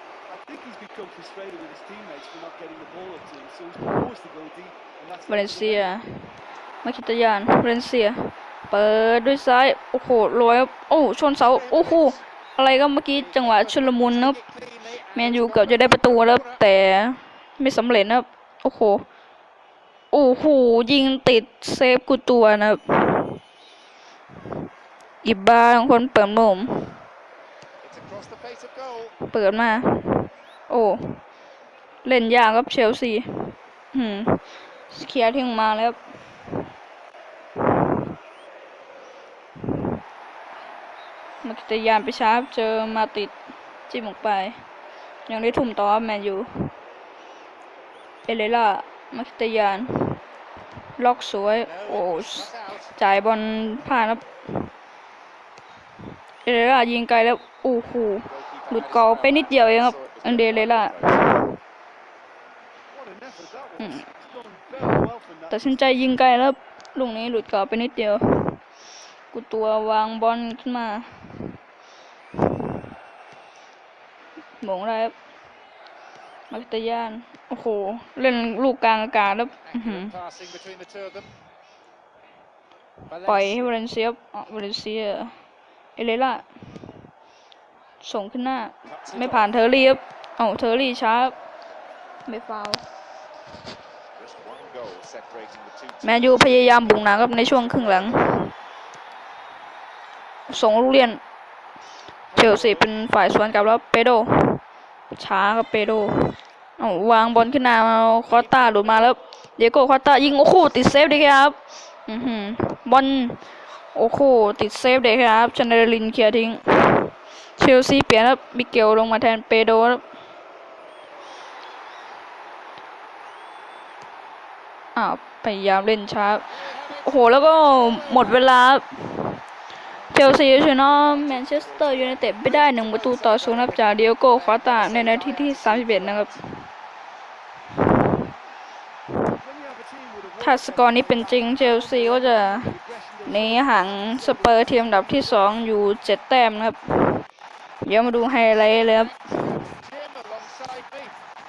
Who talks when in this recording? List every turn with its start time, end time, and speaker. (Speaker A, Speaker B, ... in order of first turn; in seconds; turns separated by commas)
Speaker A: 0.3-5.9, Speaker B: 5.3-6.2, Speaker B: 6.8-14.4, Speaker C: 11.3-12.2, Speaker C: 13.1-16.6, Speaker B: 15.1-19.0, Speaker B: 20.1-23.4, Speaker B: 25.2-26.9, Speaker C: 27.8-29.1, Speaker B: 29.2-31.2, Speaker B: 32.0-34.4, Speaker B: 34.9-36.0, Speaker B: 41.4-43.3, Speaker B: 43.9-44.6, Speaker B: 45.3-46.5, Speaker B: 48.2-50.2, Speaker B: 51.0-54.3, Speaker C: 51.6-53.0, Speaker B: 56.4-61.5, Speaker C: 58.2-61.3, Speaker A: 62.9-65.7, Speaker B: 63.8-64.1, Speaker B: 65.5-68.6, Speaker B: 69.3-71.4, Speaker B: 74.6-75.1, Speaker B: 76.5-80.1, Speaker C: 79.5-81.3, Speaker C: 83.1-83.8, Speaker B: 83.2-85.3, Speaker B: 86.0-86.5, Speaker B: 88.0-91.4, Speaker C: 88.8-89.7, Speaker B: 92.2-92.8, Speaker C: 94.2-98.5, Speaker B: 96.0-98.3, Speaker B: 100.5-101.2, Speaker C: 102.3-102.9, Speaker B: 102.3-104.6, Speaker B: 105.2-113.4, Speaker C: 108.3-109.1, Speaker B: 113.9-120.0, Speaker B: 125.0-126.5, Speaker C: 126.5-128.4, Speaker B: 127.0-129.2, Speaker B: 130.1-136.3, Speaker C: 130.1-136.3, Speaker A: 139.3-145.6, Speaker B: 140.4-142.7, Speaker B: 143.3-147.2, Speaker B: 147.8-149.1, Speaker C: 148.3-151.2